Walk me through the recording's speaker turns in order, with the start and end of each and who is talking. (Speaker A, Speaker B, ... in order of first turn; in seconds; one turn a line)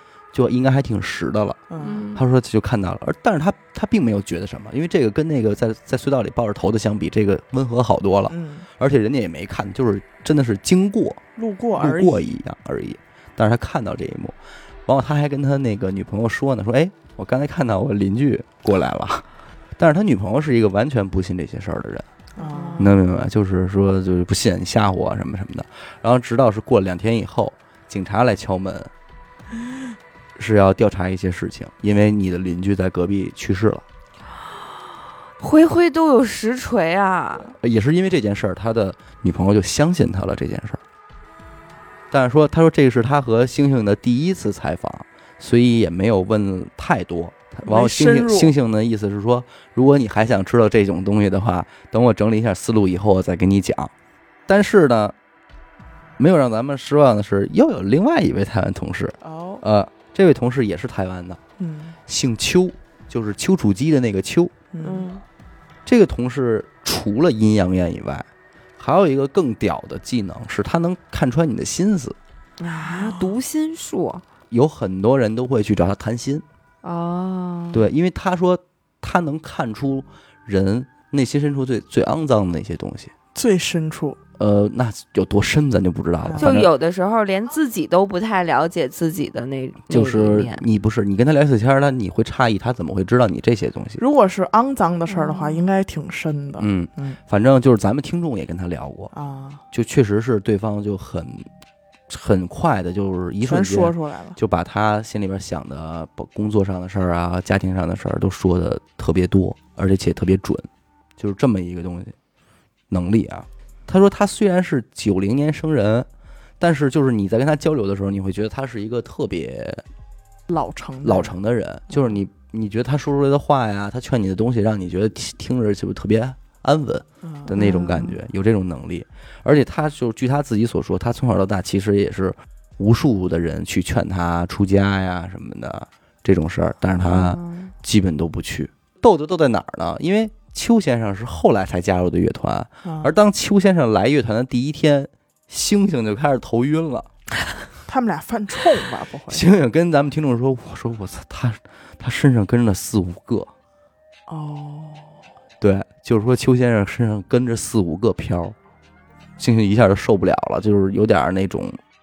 Speaker A: 0.3-1.6
Speaker B: 1.7-2.1
Speaker C: 1.8-2.2
Speaker A: 2.1-11.2
Speaker B: 8.3-8.7
Speaker B: 11.3-12.2
Speaker A: 11.8-19.2
Speaker A: 19.8-22.1
Speaker B: 22.4-22.8
Speaker C: 22.4-23.0
Speaker A: 22.8-28.9
Speaker A: 30.4-33.8
Speaker C: 35.4-37.5
Speaker A: 37.4-40.8
Speaker A: 42.1-53.9
Speaker B: 47.6-48.5
Speaker A: 54.5-55.1
Speaker A: 56.2-61.4
Speaker B: 59.2-59.6
Speaker B: 61.6-62.0
Speaker A: 62.1-64.5
Speaker B: 64.7-65.1
Speaker C: 64.8-65.2
Speaker A: 65.9-68.3
Speaker A: 68.8-72.2
Speaker C: 72.6-74.2
Speaker B: 72.8-73.4
Speaker A: 74.5-76.4
Speaker C: 76.8-77.9
Speaker A: 77.7-83.1
Speaker B: 83.3-84.2
Speaker A: 84.4-86.7
Speaker B: 86.2-86.5
Speaker C: 86.4-90.7
Speaker A: 89.9-94.0
Speaker B: 94.0-97.2
Speaker C: 95.1-95.7
Speaker A: 96.6-99.1
Speaker B: 99.1-99.6
Speaker A: 99.7-101.5
Speaker A: 102.1-110.7
Speaker B: 103.4-104.4
Speaker A: 111.2-112.1
Speaker A: 112.9-116.1
Speaker A: 116.6-119.8
Speaker B: 120.5-121.3
Speaker A: 121.0-147.1
Speaker B: 127.2-128.1
Speaker C: 127.6-128.0
Speaker C: 137.0-137.7
Speaker B: 142.8-143.1
Speaker B: 147.9-149.4
Speaker A: 149.3-153.5
Speaker B: 154.3-155.2
Speaker A: 155.6-158.6
Speaker A: 159.4-161.8